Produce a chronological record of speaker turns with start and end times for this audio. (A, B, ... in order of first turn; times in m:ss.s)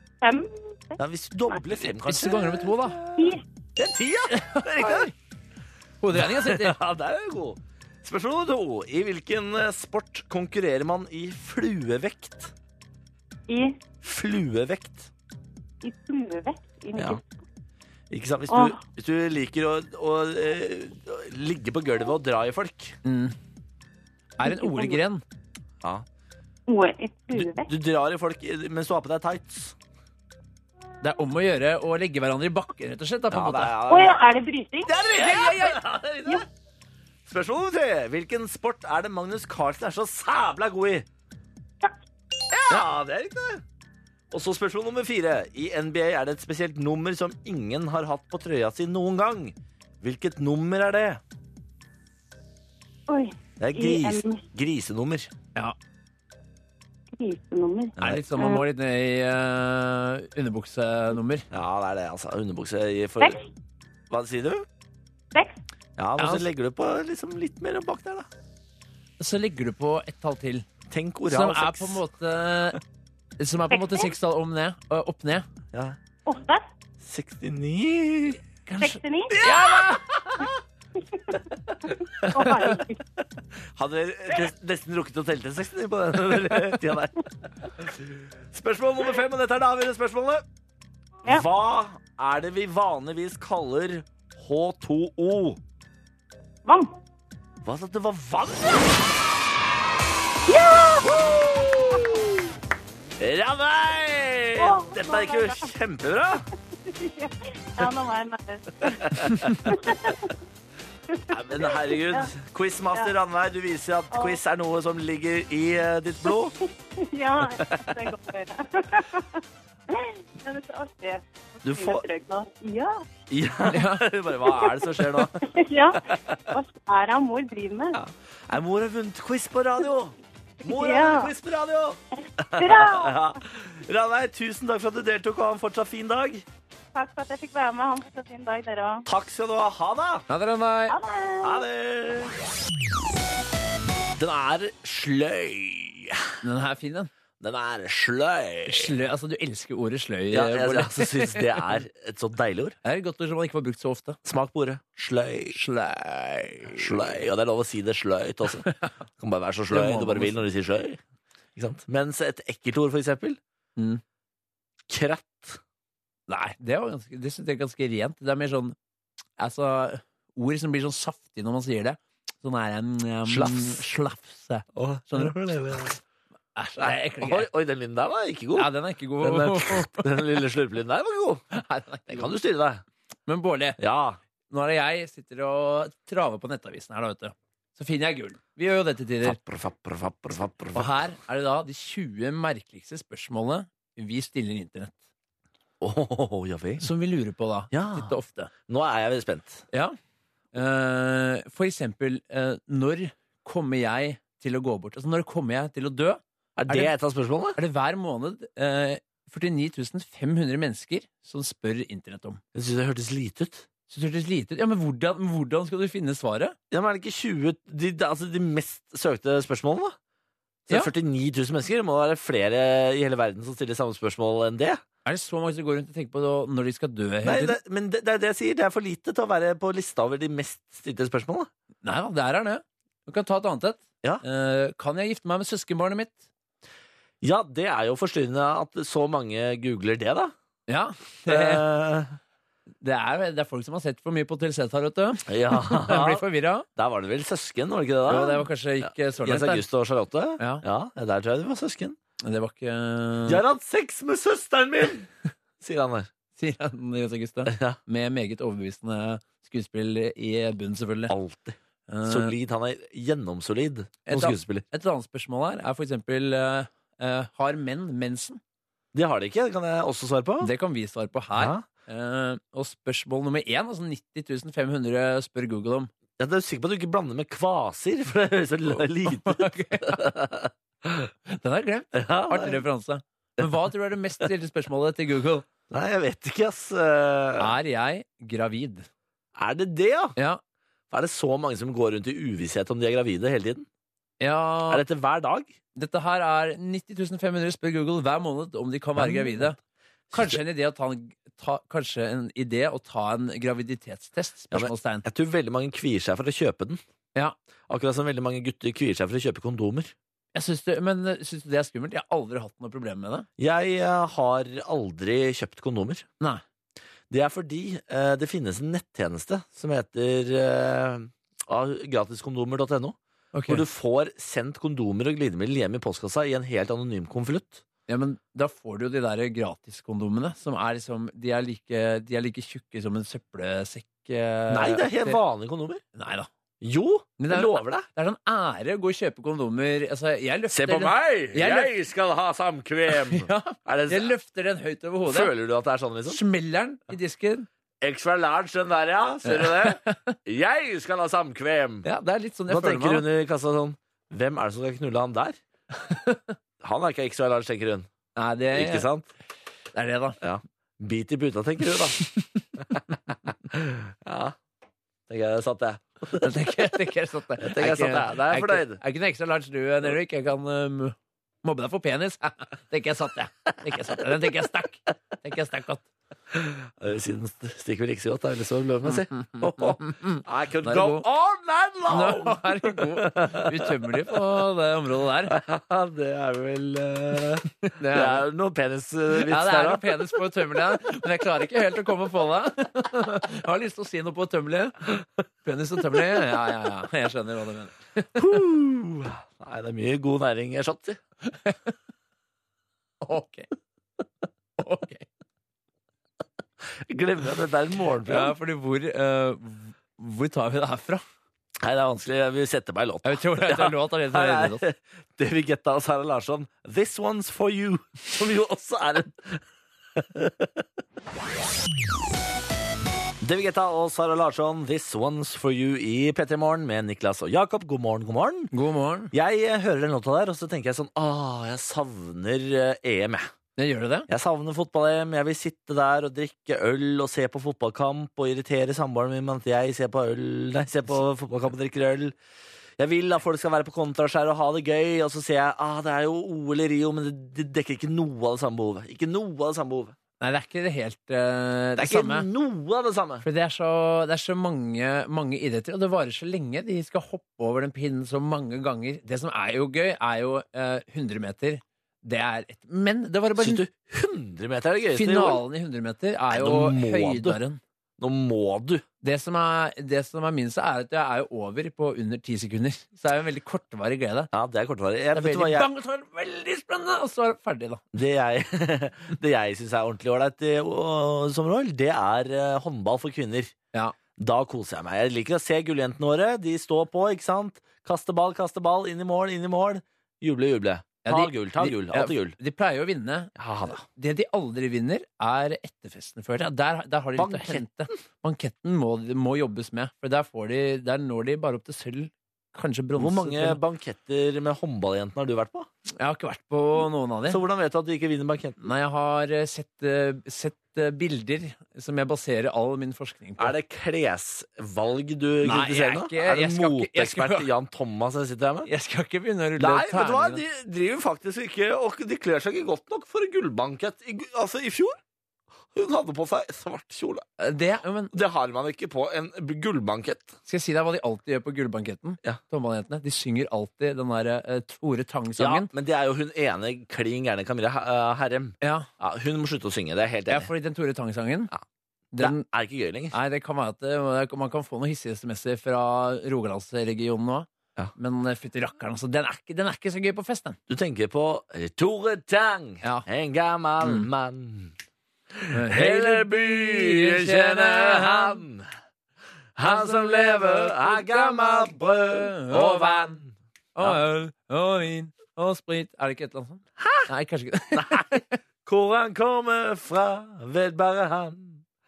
0:00.2-0:01.0 A
0:01.0-0:05.1 B
0:01.9-0:03.0 C
0:03.2-0:03.4 A
0:04.3-0:05.1 C
0:06.0-0:06.8 C
0:06.1-0:12.5 B
0:13.5-0:13.8 A
0:14.0-0:15.1 B
0:15.8-0:17.2 A
0:17.0-0:17.2 B
0:18.1-0:23.0 B
0:18.5-0:18.8 A
0:23.0-0:23.4 C
0:24.4-0:25.2 C
0:24.4-0:25.0 A
0:26.7-0:27.7 A
0:27.3-0:29.8 B
0:31.0-0:33.8 C
0:33.3-0:34.2 B
0:33.9-0:34.9 A
0:34.8-0:36.5 B
0:35.1-0:35.8 C
0:37.3-0:41.1 B
0:42.6-0:43.6 B
0:44.3-0:51.2 B
0:53.1-0:54.4 A
0:53.6-0:55.3 B
0:57.1-0:58.6 A
0:58.0-0:58.3 B
0:58.0-1:01.5 C
1:01.5-1:03.4 B
1:04.1-1:04.7 B
1:06.0-1:08.3 B
1:06.2-1:06.4 C
1:09.2-1:10.7 C
1:10.9-1:12.0 B
1:11.3-1:12.8 C
1:13.4-1:15.5 C
1:13.7-1:14.1 A
1:15.7-1:16.0 B
1:16.3-1:16.6 A
1:17.0-1:18.4 B
1:18.7-1:20.4 C
1:18.8-1:19.4 A
1:19.3-1:20.5 B
1:21.1-1:21.4 A
1:21.9-1:22.8 B
1:22.3-1:23.0 A
1:23.6-1:30.4 B
1:31.2-1:35.6 B
1:36.7-1:36.9 A
1:37.6-1:39.1 B
1:40.5-1:41.2 A
1:41.0-1:42.5 B
1:43.2-1:46.5 B
1:44.6-1:45.7 A
1:46.8-1:50.3 A
1:48.8-1:50.1 B
1:51.1-1:52.3 A
1:51.3-1:56.6 B
1:54.1-1:54.4 A
1:57.0-2:03.0 A
1:57.4-1:58.0 B
2:01.6-2:02.1 B
2:03.3-2:06.6 B
2:03.7-2:04.0 C
2:04.6-2:08.0 A
2:07.9-2:16.5 B
2:10.6-2:11.3 A
2:12.6-2:13.2 A
2:17.0-2:19.1 A
2:19.1-2:20.2 B
2:20.3-2:21.0 C
2:20.9-2:21.6 A
2:21.4-2:22.3 B
2:24.2-2:26.4 B
2:26.4-2:27.1 C
2:27.4-2:28.9 B
2:28.7-2:31.7 C
2:30.3-2:32.8 B
2:32.8-2:34.2 C
2:34.2-2:35.6 B
2:35.5-2:37.2 C
2:36.7-2:38.7 B
2:38.6-2:38.9 C
2:39.2-2:41.0 B
2:39.7-2:40.4 C
2:41.6-2:43.4 B
2:43.8-2:44.0 C
2:44.9-2:45.6 B
2:46.3-2:48.8 C
2:49.4-2:56.0 C
2:53.3-2:53.8 B
2:54.8-2:56.0 B
2:56.6-2:57.5 C
2:56.8-2:58.7 B
2:58.6-3:00.3 C
2:59.2-3:01.4 B
3:01.5-3:02.3 C
3:02.1-3:02.8 B
3:03.3-3:03.8 C
3:03.8-3:04.2 B
3:04.5-3:09.4 C
3:09.2-3:11.0 B
3:10.8-3:15.0 C
3:15.8-3:16.9 B
3:16.8-3:18.5 C
3:17.7-3:18.1 B
3:18.7-3:19.6 B
3:20.5-3:26.9 C
3:26.6-3:27.6 B
3:27.6-3:32.4 C
3:32.6-3:33.7 B
3:33.9-3:36.6 C
3:36.7-3:40.0 B
3:40.7-3:44.8 B
3:45.1-3:47.6 C
3:47.2-3:51.5 B
3:51.8-3:56.2 C
3:57.2-4:00.3 B
4:00.7-4:01.6 C
4:01.3-4:02.2 B
4:02.8-4:06.7 C
4:05.3-4:06.2 B
4:06.8-4:12.0 B
4:08.1-4:09.6 C
4:10.4-4:10.6 C
4:12.2-4:13.4 C
4:13.3-4:15.1 B
4:15.6-4:16.1 B
4:16.4-4:21.1 C
4:17.5-4:17.8 B
4:21.1-4:24.6 B
4:21.9-4:22.3 C
4:24.1-4:28.4 C
4:28.9-4:30.5 B
4:30.4-4:35.9 C
4:31.4-4:31.6 B
4:36.2-4:41.1 B
4:38.7-4:40.1 C
4:41.3-4:45.5 C
4:41.9-4:42.6 B
4:45.7-4:47.5 B
4:47.4-4:48.9 C
4:49.4-4:50.2 B
4:50.9-4:53.7 B
4:54.2-4:54.8 C
4:54.7-4:55.5 B
4:55.8-4:59.6 C
4:59.0-4:59.5 B
5:00.1-5:00.4 B
5:00.1-5:05.0 C
5:04.5-5:06.8 B
5:07.7-5:09.9 B
5:10.4-5:13.3 C
5:13.4-5:16.1 B
5:17.1-5:27.6 B
5:23.3-5:23.6 C
5:27.9-5:35.2 C
5:34.5-5:35.8 B
5:36.0-5:36.3 C
5:36.6-5:37.9 B
5:37.2-5:41.7 C
5:40.5-5:44.1 B
5:42.9-5:45.3 C
5:45.1-5:46.2 B
5:46.1-5:47.5 C
5:47.8-5:51.9 B
5:49.2-5:50.2 C
5:51.8-5:53.0 C
5:52.5-5:55.4 B
5:55.8-5:56.3 C
5:56.6-5:57.9 B
5:58.2-5:58.9 C
5:58.5-5:59.1 B
5:59.7-6:00.2 C
6:00.2-6:02.0 B
6:02.6-6:02.8 B
6:03.5-6:04.4 B
6:05.1-6:06.4 B
6:06.2-6:15.9 C
6:07.4-6:08.8 B
6:16.3-6:24.1 B
6:18.9-6:21.0 C
6:21.9-6:25.4 C
6:25.3-6:30.9 B
6:27.6-6:28.2 C
6:29.2-6:34.8 C
6:35.4-6:38.2 C
6:35.9-6:36.2 B
6:38.2-6:41.0 B
6:41.2-6:41.7 C
6:43.0-6:43.5 C
6:44.6-6:45.1 C
6:46.8-6:48.3 B
6:48.1-6:51.0 C
6:51.6-6:59.4 B
6:53.0-6:54.6 C
7:00.0-7:00.6 B
7:03.2-7:08.5 B
7:08.5-7:09.1 C
7:09.1-7:13.3 B
7:13.6-7:14.1 C
7:14.1-7:22.2 B
7:22.8-7:30.0 B
7:30.2-7:32.3 C
7:31.8-7:33.2 B
7:33.2-7:43.6 C
7:43.4-7:45.4 B
7:44.9-7:47.6 C
7:46.3-7:47.4 B
7:48.0-7:48.8 B
7:49.0-7:54.3 C
7:54.3-7:55.7 B
7:55.1-7:57.8 C
7:57.9-8:03.5 B
8:04.2-8:12.4 B
8:11.0-8:23.6 C
8:13.4-8:13.8 B
8:17.2-8:17.9 B
8:23.0-8:25.7 B
8:26.0-8:27.4 C
8:27.3-8:28.7 B
8:28.6-8:33.5 C
8:33.4-8:38.7 B
8:35.4-8:37.5 C
8:38.7-8:40.4 C
8:39.6-8:45.0 B
8:45.7-8:47.2 B
8:47.4-8:48.1 C
8:48.1-8:50.4 B
8:50.5-8:55.7 C
8:55.4-9:00.5 B
8:58.6-8:58.9 C
9:00.3-9:01.5 C
9:02.1-9:02.4 C
9:02.2-9:03.1 B
9:03.1-9:10.6 C
9:10.7-9:14.8 B
9:13.8-9:14.1 C
9:15.3-9:18.7 B
9:15.5-9:18.4 C
9:19.6-9:24.0 B
9:19.6-9:23.2 C
9:23.8-9:28.3 C
9:26.8-9:27.1 B
9:27.7-9:31.6 B